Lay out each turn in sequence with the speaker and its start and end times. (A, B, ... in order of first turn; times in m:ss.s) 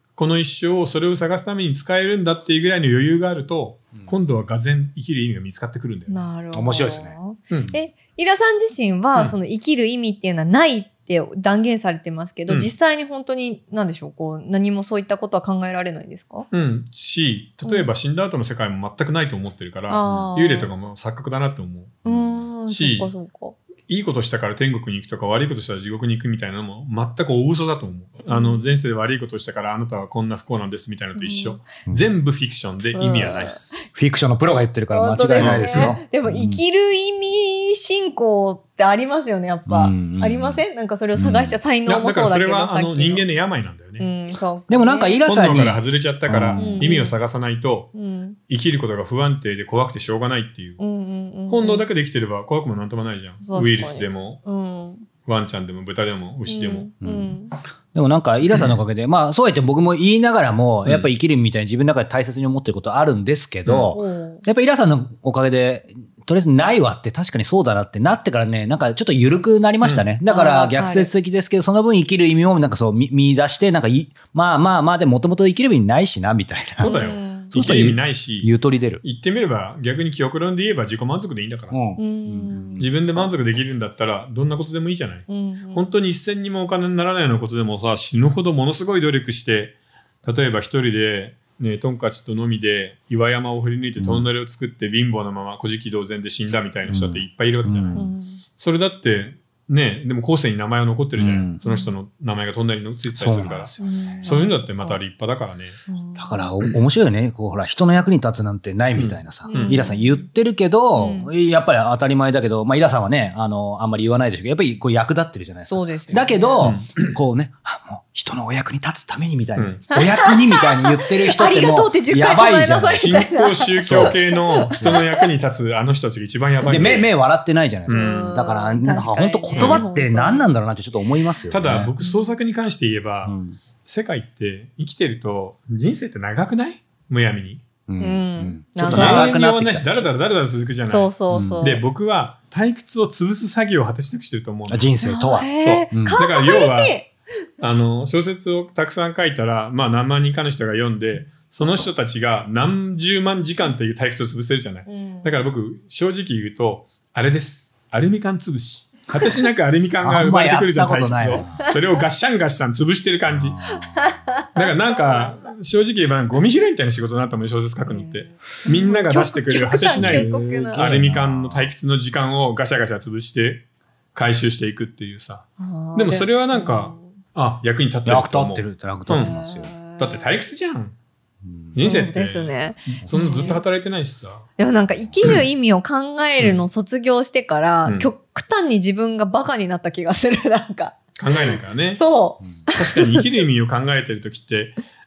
0:00.2-0:06.2 A
0:06.1-0:16.5 B
0:06.5-0:07.2 C
0:16.5-0:22.0 A
0:19.9-0:20.7 B
0:22.0-0:22.3 C
0:22.1-0:23.6 B
0:22.7-0:23.1 A
0:23.9-0:33.7 A
0:28.3-0:28.7 B
0:31.2-0:31.6 B
0:32.9-0:33.8 B
0:33.9-0:36.6 C
0:34.9-0:43.2 B
0:35.4-0:36.0 A
0:39.7-0:40.6 C
0:41.2-0:41.6 C
0:41.9-0:44.1 A
0:44.0-0:45.2 B
0:44.7-0:46.9 C
0:45.2-0:48.0 A
0:46.6-0:47.1 B
0:48.0-0:48.4 B
0:48.5-0:50.8 A
0:50.8-0:51.9 B
0:51.5-0:54.4 A
0:53.4-0:55.1 B
0:55.2-0:56.9 A
0:56.5-0:57.6 B
0:57.0-0:57.4 C
0:57.9-1:17.0 C
1:03.6-1:04.0 A
1:03.9-1:04.4 B
1:10.3-1:11.1 B
1:16.8-1:18.5 A
1:16.8-1:17.5 B
1:17.5-1:19.0 C
1:19.0-1:21.8 A
1:21.7-1:22.9 C
1:22.0-1:22.9 B
1:22.8-1:45.8 A
1:25.3-1:25.8 B
1:34.0-1:34.3 C
1:36.9-1:38.1 C
1:38.0-1:38.4 B
1:41.2-1:41.6 C
1:41.6-1:41.9 B
1:43.1-1:44.3 C
1:43.8-1:45.0 B
1:45.9-1:46.5 B
1:46.2-2:03.2 C
1:49.0-1:49.9 A
1:49.5-1:50.3 B
1:51.0-1:51.3 B
1:55.6-1:56.7 B
1:56.6-1:57.2 A
1:59.6-1:59.8 A
1:59.9-2:05.3 B
2:02.9-2:07.1 A
2:03.9-2:04.2 C
2:04.8-2:05.0 C
2:06.6-2:11.9 C
2:07.9-2:08.3 A
2:07.9-2:10.5 B
2:09.5-2:09.9 A
2:11.5-2:17.6 A
2:12.0-2:12.4 B
2:13.2-2:13.6 C
2:17.9-2:20.1 C
2:18.0-2:19.3 B
2:18.8-2:24.9 A
2:20.8-2:21.8 B
2:21.3-2:21.6 C
2:24.7-2:26.2 C
2:25.0-2:27.1 B
2:25.6-2:27.1 A
2:27.6-2:43.7 A
2:34.9-2:35.4 B
2:40.0-2:41.7 C
2:43.3-2:44.2 C
2:43.7-2:45.5 B
2:44.6-2:59.3 A
2:47.8-2:50.9 B
2:49.8-2:51.7 C
2:55.6-2:57.1 B
2:58.1-2:59.7 C
2:59.1-3:00.2 B
3:00.0-3:01.0 A
3:01.4-3:01.8 C
3:01.7-3:04.5 A
3:01.8-3:03.6 B
3:04.6-3:13.2 B
3:07.8-3:08.1 A
3:11.2-3:12.0 A
3:12.6-3:14.8 A